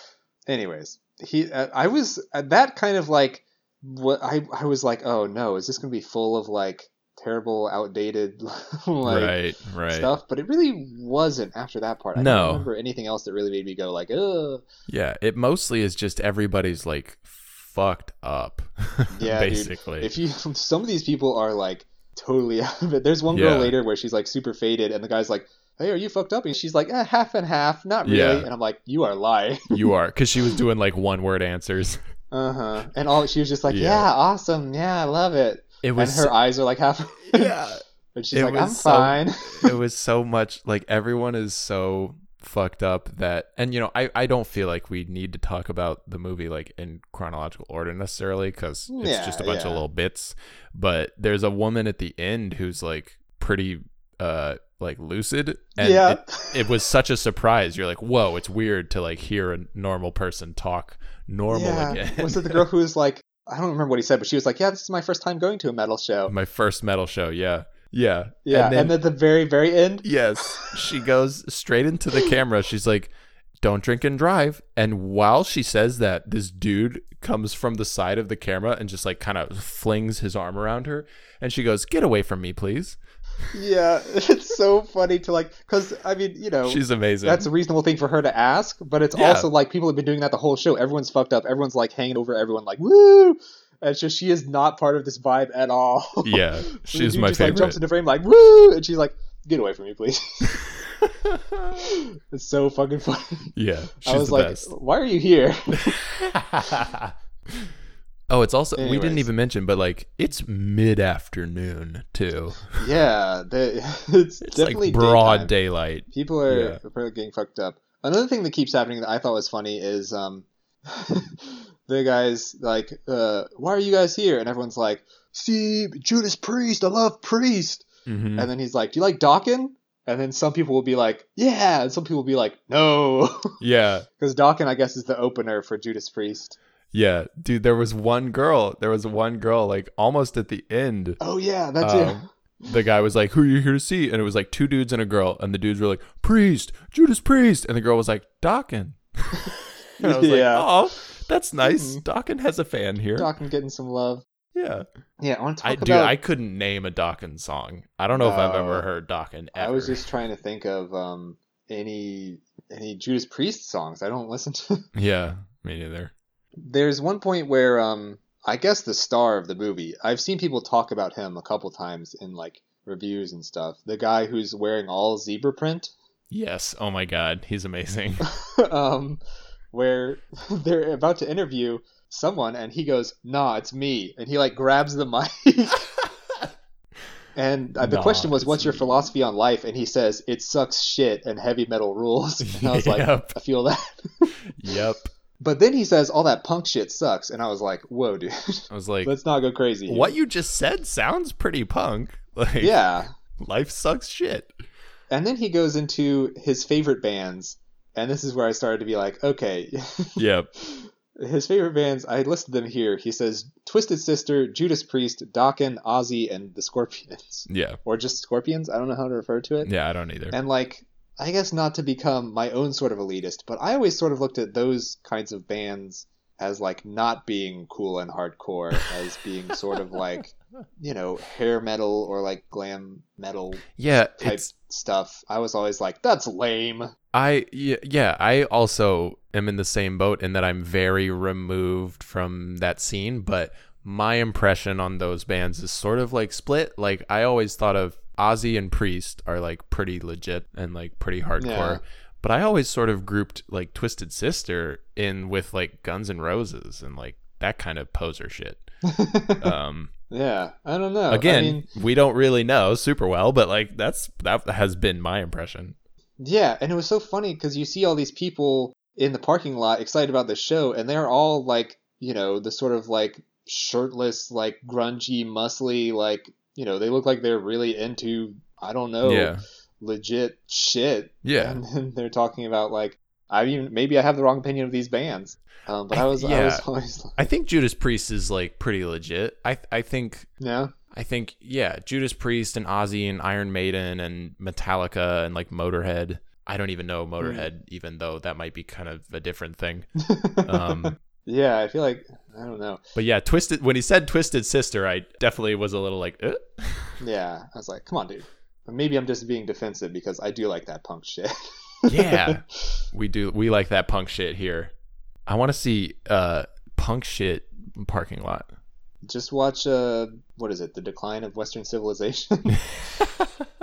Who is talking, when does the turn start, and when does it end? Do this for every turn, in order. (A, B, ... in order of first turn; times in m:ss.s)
0:00.5-0:14.6 A
0:09.0-0:10.1 B
0:12.2-0:12.7 B
0:14.9-0:20.1 B
0:19.1-0:29.7 A
0:23.3-0:23.7 B
0:28.0-0:28.5 B
0:29.7-0:32.0 B
0:32.3-0:37.5 A
0:33.7-0:34.0 B
0:35.8-0:36.3 B
0:37.2-0:37.8 B
0:38.1-0:39.7 A
0:38.3-1:02.6 B
0:48.9-0:49.8 A
0:55.8-0:56.7 A
1:01.5-1:06.3 A
1:06.3-1:09.0 B
1:08.4-1:10.1 A
1:10.0-1:23.0 B
1:23.5-1:40.6 A
1:26.6-1:27.5 B
1:29.1-1:29.5 B
1:36.2-1:37.8 B
1:41.0-1:41.7 B
1:42.3-1:43.5 A
1:43.5-1:44.7 B
1:44.0-1:46.0 A
1:45.9-1:47.1 B
1:48.3-1:52.8 B
1:48.8-1:49.3 A
1:52.8-1:55.5 A
1:54.4-1:56.8 B
1:56.1-2:13.5 A
2:08.0-2:08.5 B
2:13.6-2:14.0 B
2:14.1-2:16.6 A
2:16.9-2:21.2 B
2:21.2-2:22.2 A
2:21.8-2:33.3 B
2:30.0-2:30.7 A
2:31.6-2:32.0 A
2:33.2-2:34.2 A
2:34.5-2:34.8 B
2:35.2-2:36.2 A
2:35.6-2:40.0 B
2:38.1-2:38.8 A
2:39.5-2:44.8 A
2:44.9-2:46.1 B
2:46.6-2:55.9 A
2:56.3-2:58.3 B
2:58.3-2:59.2 A
2:59.7-3:05.9 A
3:07.4-3:14.3 A
3:07.8-3:09.1 B
3:12.4-3:13.4 B
3:14.6-3:15.1 B
3:15.4-3:20.2 A
3:18.7-3:19.1 B
3:19.9-3:22.8 B
3:22.6-3:23.1 A
3:23.4-3:24.5 B
3:25.1-3:39.7 A
3:30.2-3:30.5 B
3:37.5-3:37.8 B
3:39.6-3:40.4 B
3:40.3-3:56.9 A
3:53.8-3:54.5 B
3:57.1-4:18.6 B
4:11.4-4:11.8 A
4:18.9-4:19.5 A
4:19.4-4:19.9 B
4:20.1-4:21.6 A
4:21.1-4:25.7 B
4:26.2-4:47.2 A
4:39.0-4:39.4 B
4:41.2-4:41.6 B
4:45.9-4:46.6 B
4:47.2-4:50.3 B
4:50.4-4:50.7 A
4:50.9-4:59.9 B
4:57.2-4:57.5 A
5:00.0-5:02.8 A
5:00.4-5:01.0 B
5:02.9-5:07.0 B
5:07.0-5:11.3 A
5:11.8-5:12.4 A
5:11.9-5:14.7 B
5:15.3-5:18.5 B
5:19.0-5:22.6 A